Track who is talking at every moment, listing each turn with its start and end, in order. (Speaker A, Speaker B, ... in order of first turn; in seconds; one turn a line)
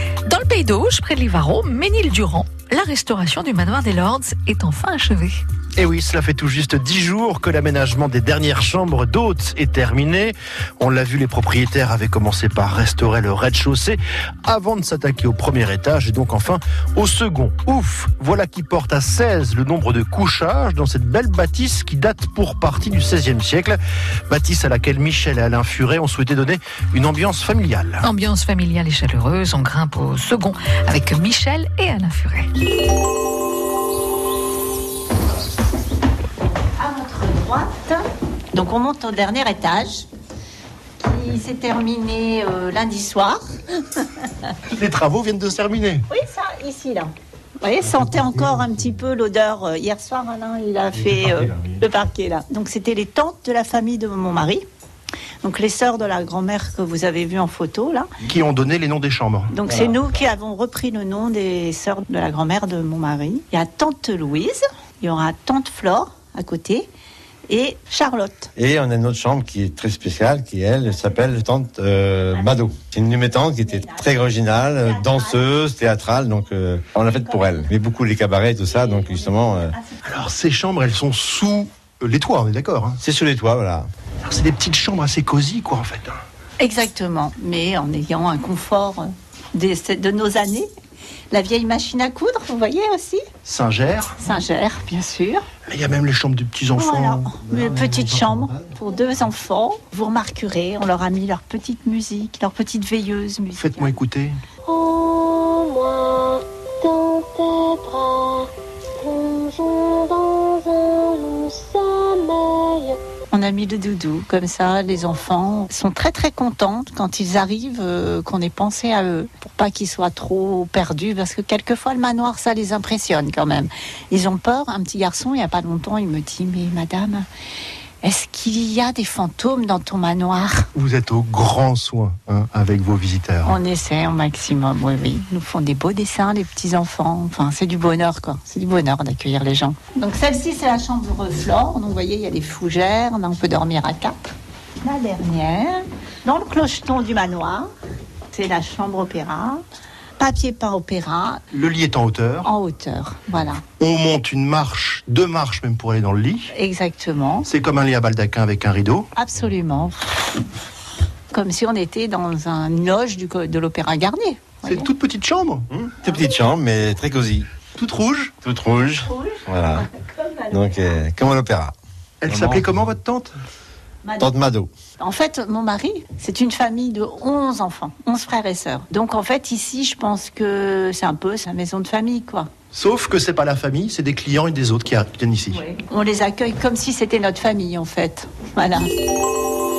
Speaker A: 0.2-5.4
Speaker B: 5.8-23.8
Speaker B: 24.3-28.0
Speaker A: 28.0-32.5
Speaker C: 36.6-40.0
Speaker C: 41.0-44.3
Speaker B: 44.7-46.0
Speaker C: 46.1-54.6
Speaker C: 55.4-58.1
Speaker B: 58.2-59.5
Speaker C: 59.5-66.9
Speaker D: 59.7-60.0
Speaker C: 67.5-68.5
Speaker D: 68.5-79.7
Speaker C: 73.3-75.5
Speaker C: 77.1-77.7
Speaker C: 78.6-80.0
Speaker B: 80.0-83.0
Speaker D: 83.0-83.9
Speaker B: 84.2-86.2
Speaker C: 86.6-90.7
Speaker C: 91.3-93.3
Speaker B: 93.4-94.2
Speaker C: 94.2-95.4
Speaker B: 95.7-97.6
Speaker C: 96.8-104.0
Speaker D: 97.5-98.5
Speaker B: 103.6-104.4
Speaker E: 104.7-113.0
Speaker C: 113.3-127.2
Speaker C: 128.0-130.7
Speaker B: 130.7-133.6
Speaker C: 133.4-144.3
Speaker C: 144.8-147.7
Speaker C: 148.3-149.6
Speaker C: 150.2-151.4
Speaker B: 151.5-152.5
Speaker C: 152.4-153.6
Speaker B: 153.8-156.5
Speaker C: 156.5-157.5
Speaker B: 157.5-159.1
Speaker C: 159.2-160.0
Speaker C: 161.3-164.9
Speaker B: 164.6-165.7
Speaker D: 165.7-167.5
Speaker C: 166.0-166.5
Speaker B: 167.7-168.3
Speaker D: 168.4-169.9
Speaker C: 169.0-171.0
Speaker D: 170.5-171.7
Speaker B: 172.2-173.3
Speaker D: 172.3-172.7
Speaker C: 174.0-174.3
Speaker D: 174.2-174.7
Speaker C: 175.0-182.5
Speaker B: 182.7-185.6
Speaker C: 185.5-188.9